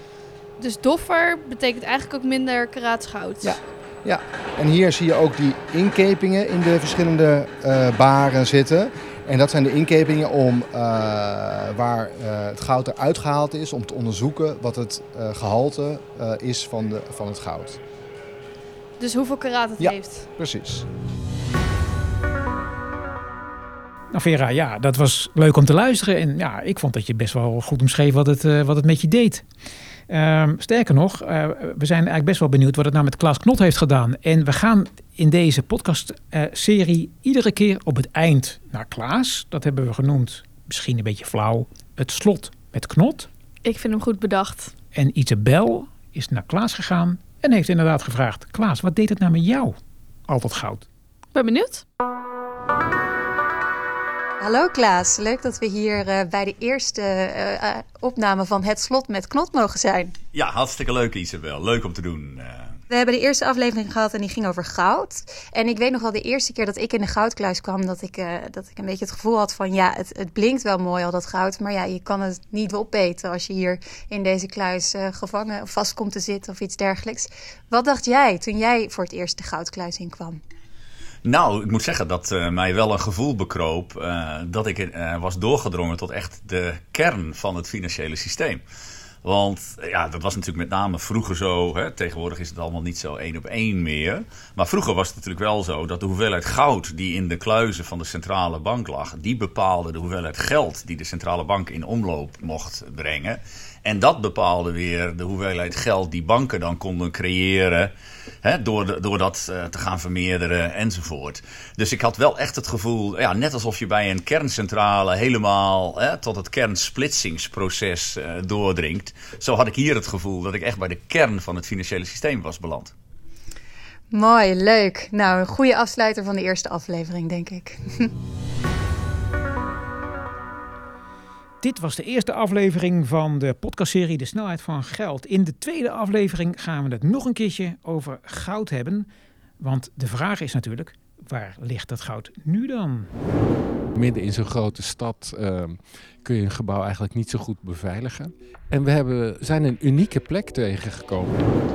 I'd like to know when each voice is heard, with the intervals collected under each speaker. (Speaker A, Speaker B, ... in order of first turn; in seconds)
Speaker A: 0.6-3.6, 19.0-20.3, 43.6-44.7, 51.3-51.9
Speaker B: 3.4-17.8, 19.8-20.9
Speaker C: 24.1-29.4, 30.1-43.3, 45.0-49.8, 50.3-50.9, 131.6-139.1, 139.6-143.1
Speaker D: 54.4-60.2, 62.9-80.4, 124.1-128.1
Speaker E: 60.3-62.8, 81.2-88.6, 89.2-107.9, 108.4-122.9
Speaker F: 143.9-151.4